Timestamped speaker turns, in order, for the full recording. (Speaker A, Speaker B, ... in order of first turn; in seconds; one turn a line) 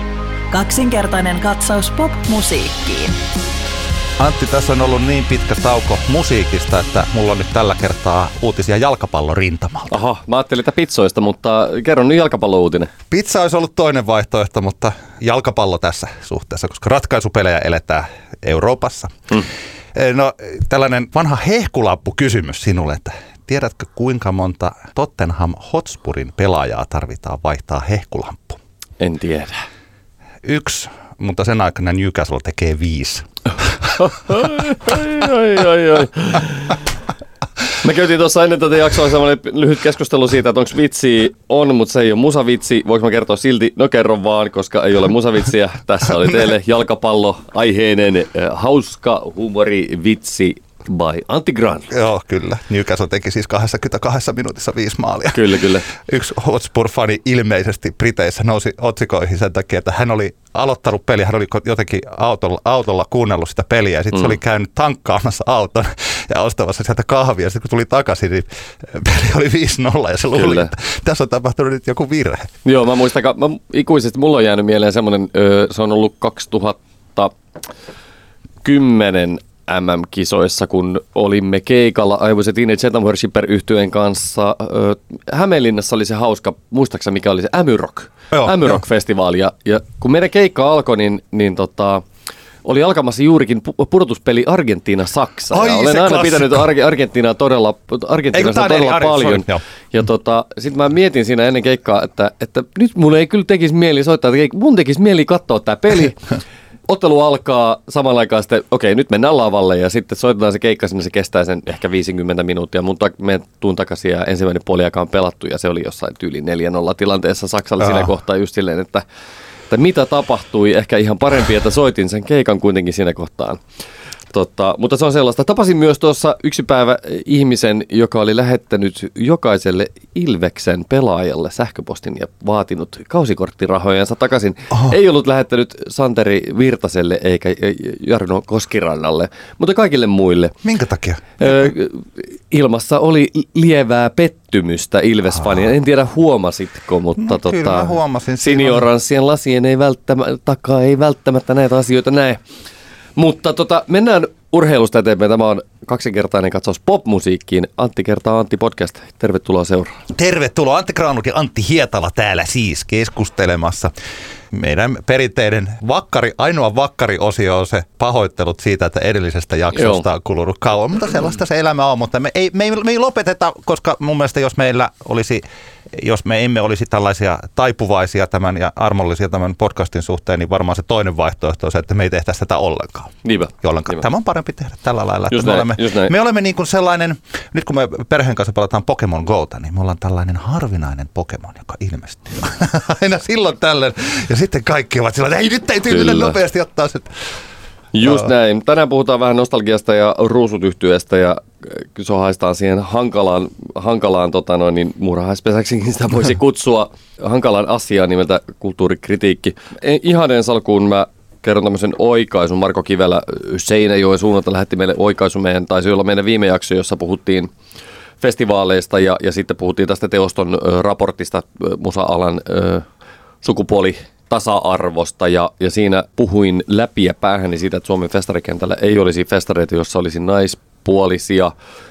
Speaker A: 0.5-3.2
Speaker B: 4.2-10.0
Speaker C: 9.9-12.9
Speaker B: 13.1-19.4
Speaker B: 19.9-28.6
Speaker C: 29.0-29.6
Speaker B: 30.4-33.9
Speaker C: 34.0-36.8
Speaker C: 37.8-51.9
Speaker B: 51.9-72.5
Speaker C: 55.3-55.9
Speaker C: 70.3-70.7
Speaker C: 72.7-77.3
Speaker C: 78.6-92.0
Speaker B: 88.3-88.8
Speaker C: 92.6-106.3
Speaker B: 95.5-96.7
Speaker B: 98.3-99.6
Speaker C: 106.9-119.0
Speaker B: 117.8-118.1
Speaker C: 119.7-123.6
Speaker C: 124.3-140.6
Speaker B: 140.6-141.7
Speaker C: 141.4-152.4
Speaker B: 147.2-148.9
Speaker C: 153.2-160.0
Speaker B: 160.1-163.9
Speaker B: 164.5-197.3
Speaker C: 169.8-170.1
Speaker C: 183.2-184.0
Speaker C: 185.3-186.1
Speaker C: 195.9-196.3
Speaker C: 197.9-217.5
Speaker C: 218.2-222.9
Speaker C: 223.4-231.5